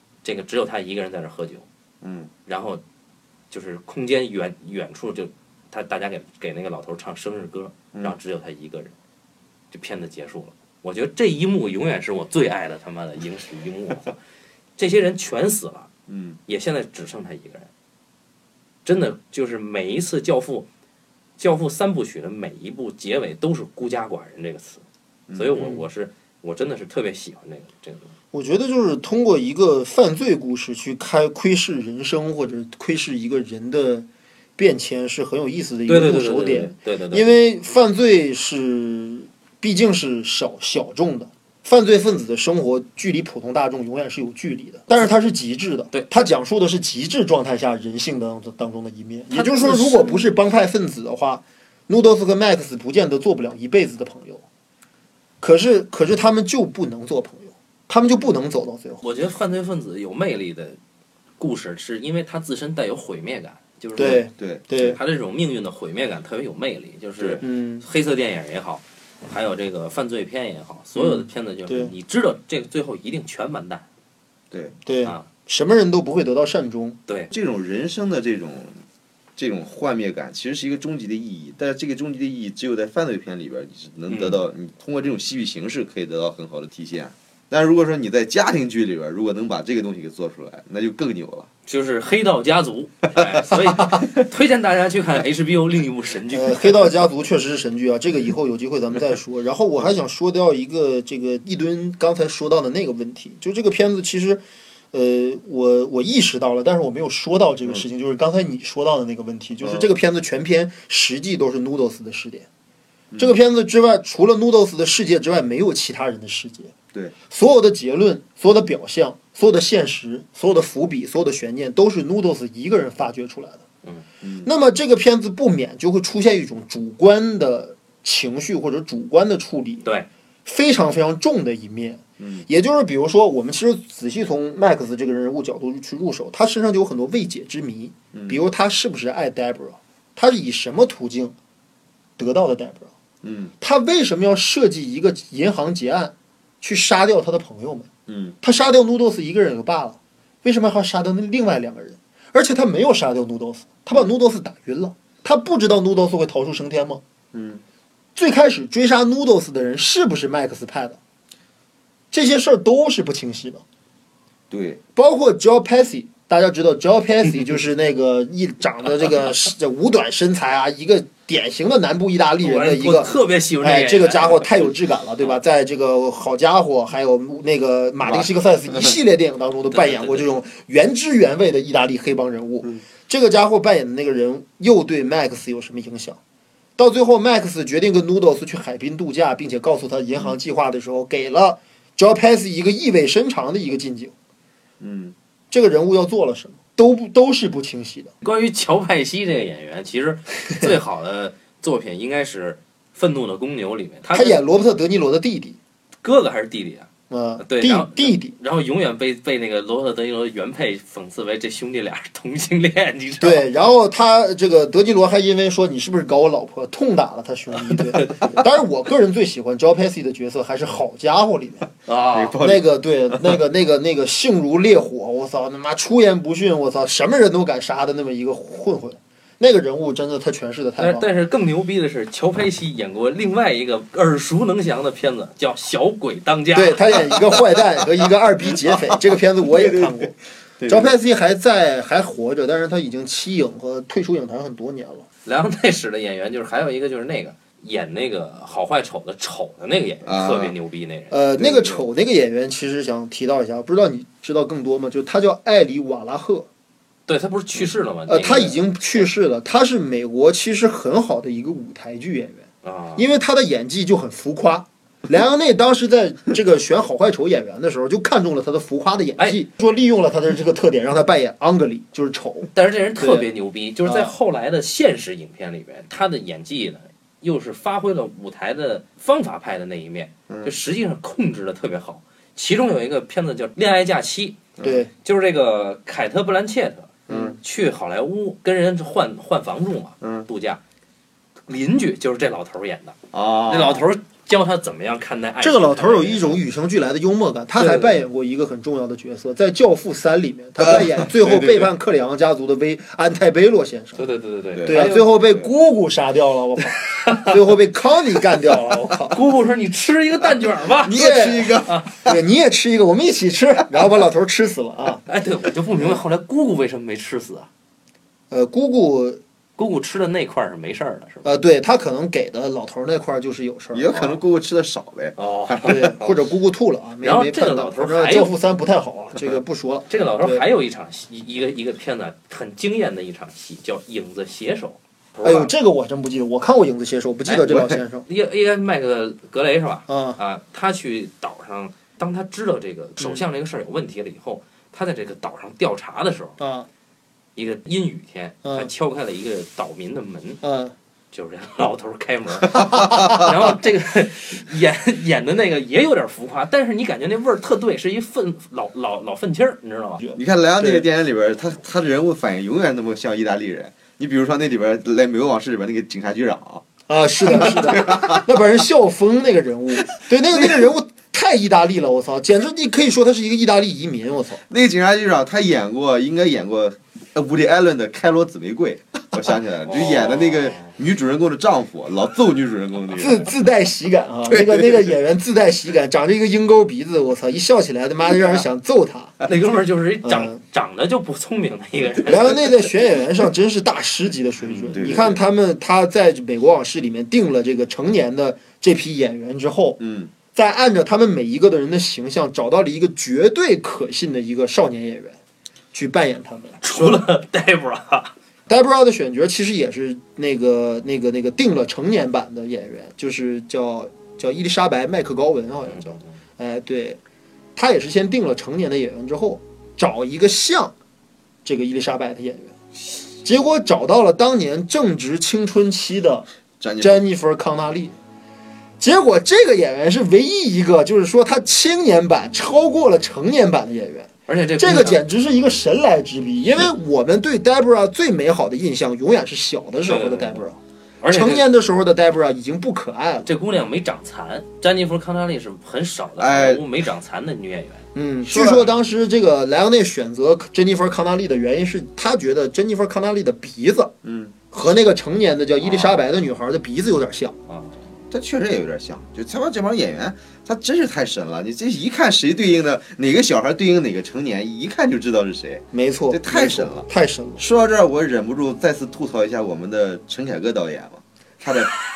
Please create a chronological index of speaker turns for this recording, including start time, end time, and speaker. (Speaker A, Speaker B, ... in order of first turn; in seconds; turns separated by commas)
Speaker A: 0.2-1.6, Speaker B: 2.0-2.3, Speaker A: 2.5-2.8, Speaker A: 3.5-8.9, Speaker A: 9.7-14.2, Speaker A: 14.8-15.9, Speaker B: 16.1-16.4, Speaker A: 16.5-17.7, Speaker A: 18.8-20.7, Speaker A: 21.4-24.8, Speaker B: 25.3-25.7, Speaker A: 25.3-28.1, Speaker C: 28.3-54.4, Speaker A: 35.9-37.3, Speaker A: 45.9-46.2, Speaker A: 49.3-50.3, Speaker C: 55.4-59.0, Speaker A: 59.0-60.8, Speaker A: 61.4-73.8, Speaker C: 64.0-65.0, Speaker B: 64.0-64.6, Speaker B: 67.2-67.4, Speaker C: 67.4-67.8, Speaker C: 70.9-71.9, Speaker B: 74.5-74.8, Speaker C: 74.8-77.0, Speaker A: 77.1-77.3, Speaker B: 77.3-78.8, Speaker B: 79.4-91.5, Speaker A: 84.1-84.4, Speaker A: 91.7-97.0, Speaker C: 96.3-104.4, Speaker C: 104.9-112.5, Speaker B: 109.6-109.9, Speaker B: 113.1-113.4, Speaker C: 113.2-116.7, Speaker C: 117.3-123.6, Speaker B: 124.2-124.5, Speaker C: 124.4-129.9, Speaker C: 130.4-141.3, Speaker B: 132.2-132.4, Speaker B: 138.1-138.4, Speaker C: 142.2-142.9, Speaker B: 143.2-143.5, Speaker C: 143.6-147.9, Speaker B: 148.1-148.4, Speaker C: 148.4-157.0, Speaker B: 157.3-157.6, Speaker C: 158.2-161.0, Speaker C: 162.1-163.6, Speaker B: 164.5-164.8, Speaker C: 164.9-186.2, Speaker A: 172.4-175.3, Speaker B: 178.0-178.9, Speaker A: 179.7-180.3, Speaker C: 186.8-194.1, Speaker B: 194.8-195.1, Speaker C: 195.5-198.1, Speaker A: 198.2-204.4, Speaker C: 204.1-205.6, Speaker A: 206.0-206.9, Speaker C: 207.1-208.3, Speaker A: 207.4-213.5, Speaker C: 213.2-221.7, Speaker A: 217.7-218.3, Speaker A: 221.9-222.4, Speaker B: 222.1-223.4, Speaker C: 222.4-231.1, Speaker A: 230.8-236.9, Speaker C: 236.5-240.1, Speaker B: 238.5-240.9, Speaker C: 240.7-245.1, Speaker A: 245.2-251.2, Speaker B: 250.0-250.5, Speaker C: 251.1-256.5, Speaker B: 251.4-251.8, Speaker A: 257.1-259.1, Speaker C: 258.1-262.4, Speaker A: 262.6-263.0, Speaker C: 263.0-273.3, Speaker A: 272.5-290.6, Speaker C: 273.8-274.1, Speaker B: 284.6-284.8, Speaker C: 284.6-284.9, Speaker B: 287.1-287.3, Speaker C: 287.1-287.4, Speaker B: 290.0-290.3, Speaker A: 291.5-293.0, Speaker B: 293.1-293.9, Speaker A: 293.5-296.4, Speaker C: 295.4-304.0, Speaker A: 297.6-297.8, Speaker B: 300.6-301.7, Speaker A: 304.0-305.1, Speaker B: 304.5-305.4, Speaker C: 304.6-309.2, Speaker A: 306.8-307.3, Speaker A: 308.5-311.0, Speaker B: 310.8-312.2, Speaker C: 310.9-315.0, Speaker A: 311.6-311.9, Speaker A: 315.1-317.5, Speaker C: 318.3-319.2, Speaker A: 319.6-321.3, Speaker C: 321.2-324.2, Speaker B: 323.7-326.3, Speaker A: 325.2-325.9, Speaker C: 325.6-330.4, Speaker A: 327.0-328.3, Speaker A: 329.9-335.5, Speaker C: 335.2-338.1, Speaker A: 337.2-337.5, Speaker B: 337.5-337.8, Speaker A: 338.1-346.4, Speaker C: 339.9-340.2, Speaker C: 343.0-343.2, Speaker C: 346.4-346.7, Speaker A: 347.3-350.4, Speaker C: 348.4-348.7, Speaker C: 350.4-350.7, Speaker A: 351.1-360.0, Speaker C: 360.0-360.8, Speaker B: 360.1-366.6, Speaker C: 366.9-374.4, Speaker B: 367.2-368.2, Speaker B: 370.3-370.6, Speaker B: 374.5-383.3, Speaker A: 379.6-380.7, Speaker C: 382.9-389.2, Speaker B: 384.3-384.9, Speaker A: 389.2-392.6, Speaker C: 390.0-390.4, Speaker C: 392.0-399.8, Speaker B: 394.7-395.2, Speaker B: 399.8-400.1, Speaker C: 400.3-405.1, Speaker C: 405.7-407.0, Speaker A: 406.6-408.1, Speaker C: 408.5-417.0, Speaker A: 415.7-416.1, Speaker C: 417.6-420.7, Speaker C: 421.4-422.5, Speaker C: 423.2-426.3, Speaker B: 426.6-427.0, Speaker C: 426.8-427.9, Speaker C: 428.8-443.3, Speaker A: 434.3-435.0, Speaker A: 439.9-440.4, Speaker A: 441.0-441.4, Speaker A: 443.2-447.9, Speaker B: 446.2-446.6, Speaker C: 447.9-453.9, Speaker B: 448.2-448.7, Speaker B: 454.0-454.4, Speaker C: 454.5-457.4, Speaker A: 457.5-457.8, Speaker B: 458.1-471.8, Speaker C: 465.7-467.4